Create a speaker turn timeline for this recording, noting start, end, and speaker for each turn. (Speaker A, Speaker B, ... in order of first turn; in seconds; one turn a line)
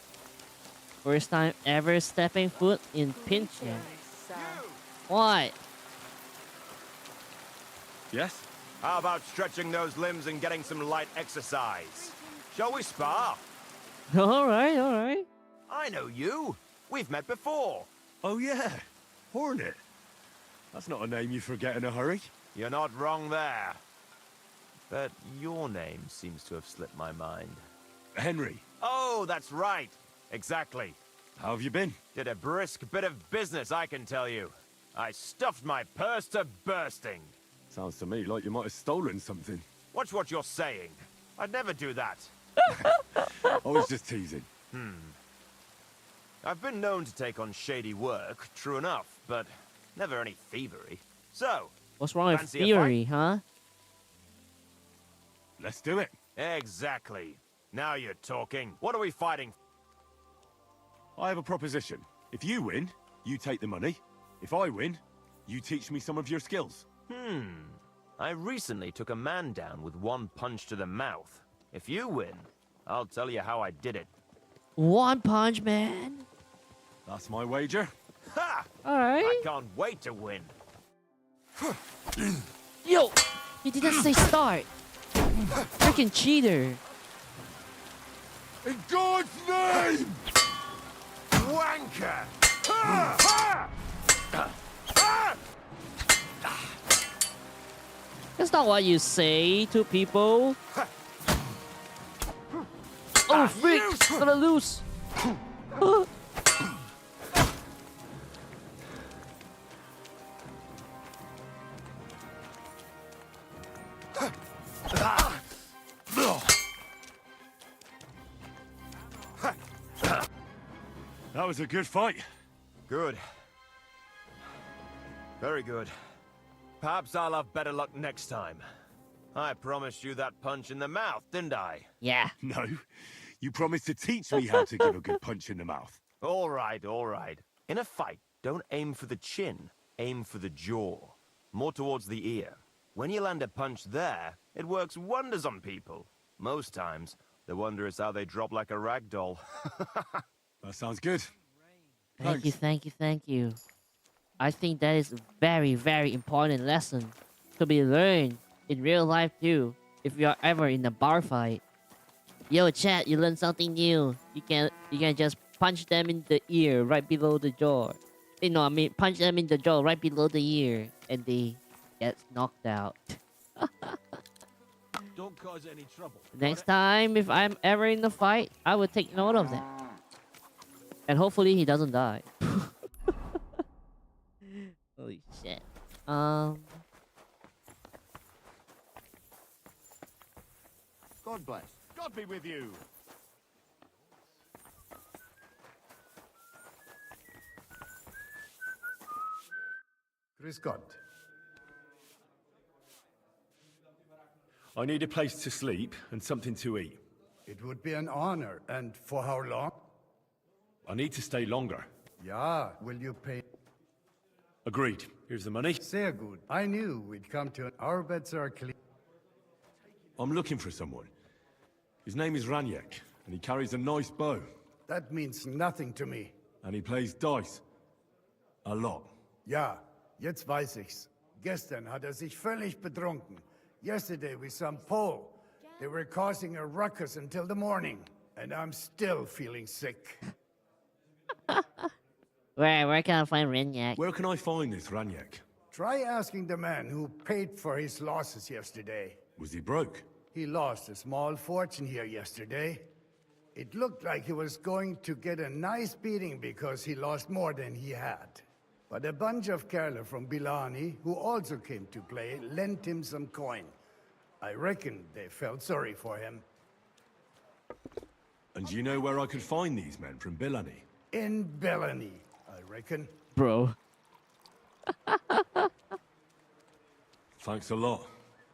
Speaker A: 1.0-3.9
Speaker B: 3.7-4.8
Speaker A: 5.1-5.5
Speaker C: 8.1-8.5
Speaker B: 8.8-13.4
Speaker A: 14.1-15.3
Speaker B: 15.7-17.9
Speaker C: 18.2-19.8
Speaker C: 20.7-22.3
Speaker B: 22.5-23.8
Speaker B: 24.9-27.6
Speaker C: 28.1-28.6
Speaker B: 28.8-31.0
Speaker C: 31.4-32.0
Speaker B: 32.1-37.3
Speaker C: 37.7-39.6
Speaker B: 39.9-42.3
Speaker C: 42.7-44.5
Speaker A: 42.8-43.5
Speaker B: 44.7-45.2
Speaker B: 46.4-51.7
Speaker A: 52.0-53.4
Speaker B: 52.3-53.0
Speaker C: 55.6-56.1
Speaker B: 56.3-59.5
Speaker C: 61.1-66.8
Speaker B: 67.1-74.1
Speaker A: 74.8-76.2
Speaker C: 77.0-77.9
Speaker B: 78.3-78.7
Speaker A: 78.8-79.4
Speaker B: 79.2-80.5
Speaker A: 82.8-84.7
Speaker A: 85.7-86.8
Speaker C: 88.6-90.2
Speaker B: 91.3-93.3
Speaker A: 98.4-100.6
Speaker B: 103.3-104.2
Speaker A: 103.3-104.8
Speaker A: 105.8-106.0
Speaker C: 121.3-122.2
Speaker B: 122.9-123.2
Speaker B: 125.4-125.9
Speaker B: 126.8-128.6
Speaker B: 129.3-131.9
Speaker A: 132.0-132.3
Speaker C: 132.4-132.8
Speaker C: 133.4-136.0
Speaker A: 134.6-134.9
Speaker B: 136.2-150.2
Speaker C: 150.6-151.3
Speaker A: 152.2-153.6
Speaker C: 152.2-152.6
Speaker A: 154.4-161.6
Speaker A: 162.5-174.0
Speaker B: 175.1-176.7
Speaker A: 176.3-179.7
Speaker A: 181.1-182.7
Speaker A: 184.5-186.8
Speaker B: 191.2-192.8
Speaker D: 200.4-201.0
Speaker C: 204.7-207.0
Speaker D: 207.4-209.7
Speaker C: 210.8-211.9
Speaker D: 212.2-213.4
Speaker C: 214.6-215.8
Speaker D: 215.8-218.7
Speaker C: 220.2-221.1
Speaker C: 222.0-224.5
Speaker D: 224.9-226.3
Speaker C: 226.6-227.6
Speaker C: 228.6-229.1
Speaker D: 229.4-240.2
Speaker A: 241.5-241.8
Speaker A: 242.6-244.0
Speaker C: 243.9-245.4
Speaker D: 245.7-249.2
Speaker C: 249.4-250.1
Speaker D: 250.3-252.9
Speaker D: 253.5-263.7
Speaker D: 264.4-266.4
Speaker C: 268.5-270.8
Speaker D: 271.1-273.1
Speaker A: 273.3-273.7
Speaker A: 275.1-275.7
Speaker C: 277.4-278.1